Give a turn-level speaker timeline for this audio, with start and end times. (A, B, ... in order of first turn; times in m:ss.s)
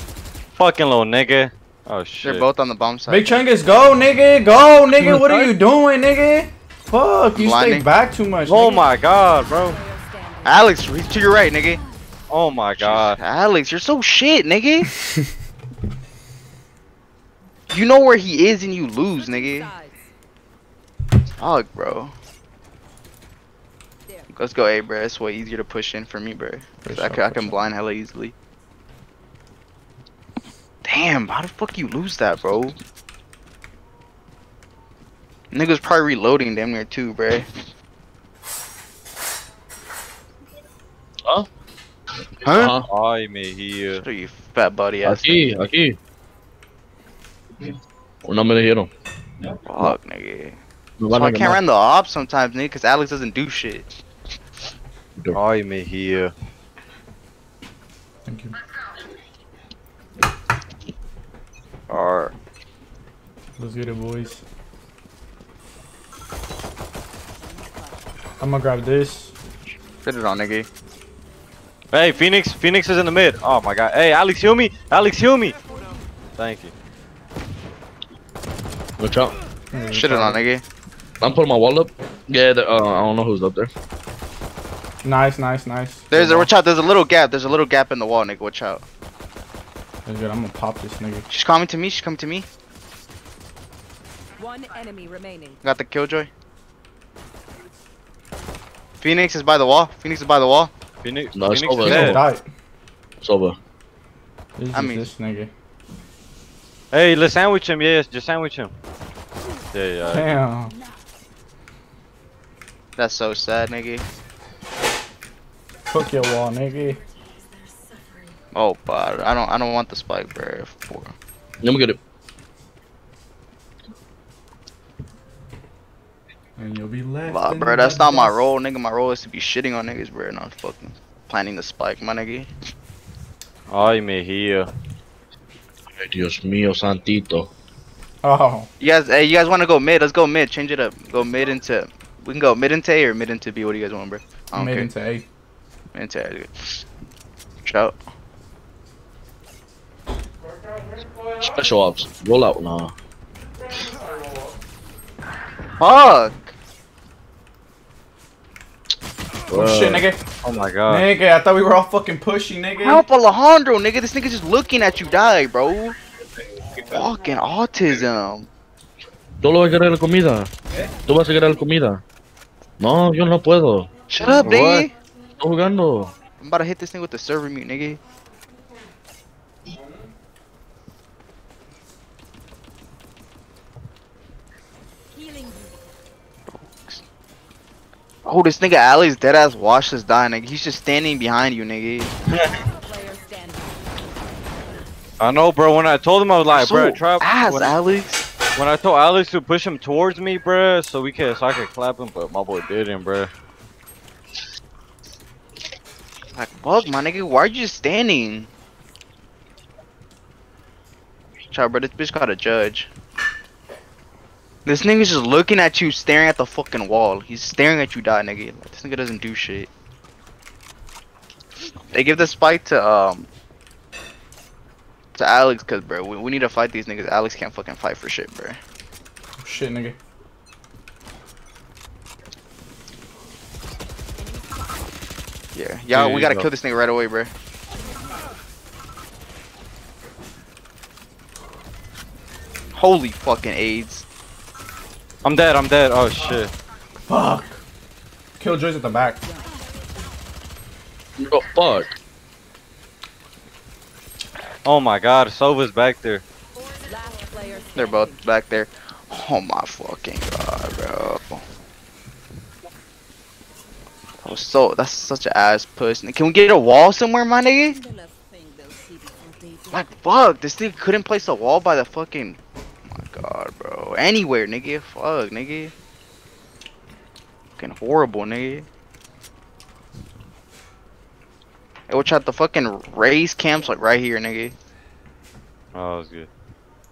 0:00.6-0:02.5 A
0:02.2-0:03.4 B
0:03.1-0:08.8 C
0:05.0-0:05.5 D
0:07.4-0:07.9 B
0:08.5-0:09.8 A
0:08.6-0:12.0 E
0:10.4-0:11.8 B
0:12.3-0:13.2 A
0:12.8-0:14.9 B
0:17.7-0:19.7 B
0:19.2-0:20.1 E
0:21.4-0:22.1 B
0:24.3-0:28.4 B
0:26.8-0:27.6 C
0:30.8-0:32.8 B
0:35.5-0:37.5 B
0:42.4-0:42.7 B
0:42.4-0:42.9 D
0:42.9-0:44.1 A
0:43.9-0:45.3 B
0:45.0-0:46.0 D
0:48.2-0:48.9 D
0:49.7-0:50.6 B
0:51.0-0:51.6 D
0:51.1-0:53.9 B
0:55.3-0:56.3 A
0:58.3-0:58.5 C
1:01.9-1:02.3 B
1:03.6-1:04.4 C
1:07.4-1:08.0 E
1:08.4-1:09.3 C
1:10.0-1:10.7 B
1:11.9-1:15.6 A
1:16.4-1:16.7 A
1:19.0-1:19.4 D
1:19.7-1:20.4 C
1:19.9-1:20.6 B
1:21.2-1:23.7 D
1:25.0-1:26.5 C
1:26.1-1:28.8 B
1:30.1-1:31.3 C
1:31.3-1:32.5 B
1:34.4-1:35.6 E
1:35.6-1:36.3 B
1:39.0-1:40.7 B
1:41.0-1:42.2 A
1:41.4-1:42.2 D
1:41.8-1:42.4 C
1:43.2-1:43.6 D
1:44.6-1:45.5 C
1:44.7-1:45.1 B
1:46.9-1:48.7 A
1:49.5-1:51.0 E
1:49.7-1:50.3 A
1:50.1-1:50.7 C
1:53.0-1:54.1 B
1:55.9-1:57.0 C
1:56.7-1:58.4 E
1:58.5-2:01.1 B
2:01.6-2:02.0 D
2:06.6-2:08.5 C
2:07.3-2:12.5 B
2:13.7-2:14.7 A
2:16.0-2:17.5 D
2:18.2-2:18.7 C
2:18.8-2:24.9 B
2:24.6-2:25.3 C
2:25.9-2:26.8 B
2:27.6-2:28.0 B
2:31.4-2:32.9 D
2:35.8-2:36.5 B
2:39.5-2:40.1 D
2:39.5-2:40.2 C
2:40.4-2:41.1 A
2:40.9-2:43.0 C
2:42.8-2:46.0 B
2:46.9-2:48.5 B
2:49.4-2:50.5 D
2:51.0-2:52.0 D
2:52.8-2:53.9 D
2:54.1-2:54.9 B
2:54.4-2:54.9 A
2:55.4-2:56.1 D
2:56.4-2:58.0 B
3:05.1-3:05.8 E
3:06.6-3:07.0 B
3:08.2-3:12.1 B
3:12.5-3:14.0 E
3:15.2-3:17.8 A
3:16.5-3:18.2 B
3:18.6-3:23.3 A
3:26.4-3:28.5 B
3:31.5-3:32.9 B
3:34.6-3:39.7 B
3:41.9-3:43.3 B
3:45.2-3:48.6 B
3:49.4-3:50.0 C
3:54.2-3:54.9 E
3:55.5-3:57.3 B
3:55.9-3:56.5 A
4:02.8-4:04.1 B
4:05.2-4:06.5 A
4:07.1-4:07.6 C
4:08.4-4:09.2 C
4:09.2-4:10.2 E
4:11.2-4:12.0 D
4:14.6-4:16.2 A
4:16.8-4:18.3 E
4:17.8-4:21.4 B
4:24.2-4:27.8 B
4:27.7-4:29.9 E
4:29.7-4:32.4 B
4:32.9-4:35.7 B
4:37.6-4:38.7 B
4:41.9-4:44.6 B
4:45.8-4:46.3 A